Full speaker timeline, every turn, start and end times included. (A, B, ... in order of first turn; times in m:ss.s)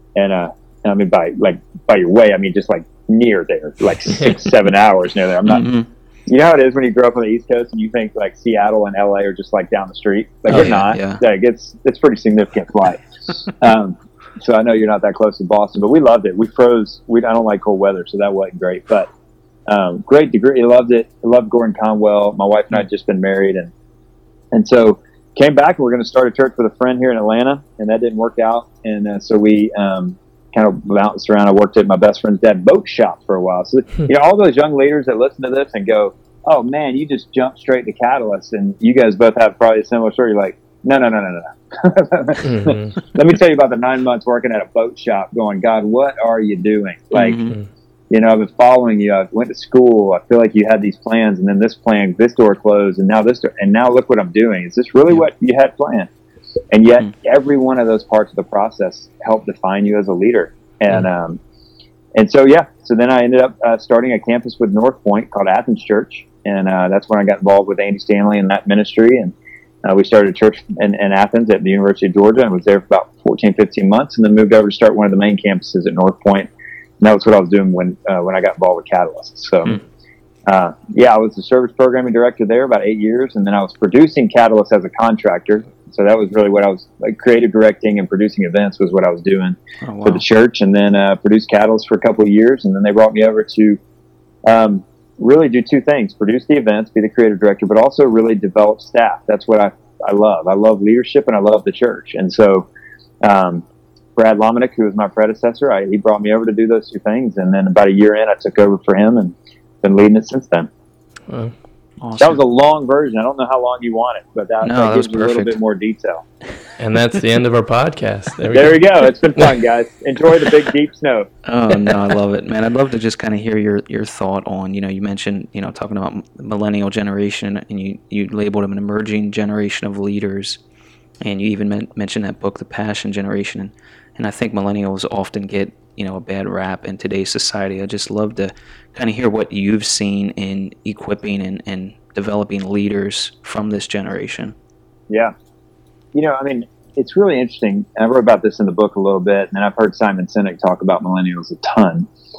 0:00.2-0:05.7 A
0:05.5-0:05.9 B
0:06.3-0:19.1 A
0:10.5-0:11.2 B
0:19.7-0:23.7 A
0:24.5-0:47.5 A
0:42.4-0:42.9 C
0:47.1-0:47.6 B
0:48.1-0:56.1 A
0:56.7-1:01.4 A
1:02.2-1:19.8 A
1:20.5-1:33.8 A
1:29.8-1:30.2 B
1:34.4-1:42.7 A
1:43.2-1:43.6 A
1:44.2-1:50.7 A
1:51.3-1:51.5 C
1:52.0-1:52.4 B
1:52.2-1:56.2 A
1:54.6-1:55.6 B
1:56.8-1:58.8 C
1:58.5-2:01.3 A
2:01.5-2:10.6 B
2:11.2-2:24.6 B
2:26.1-2:32.1 A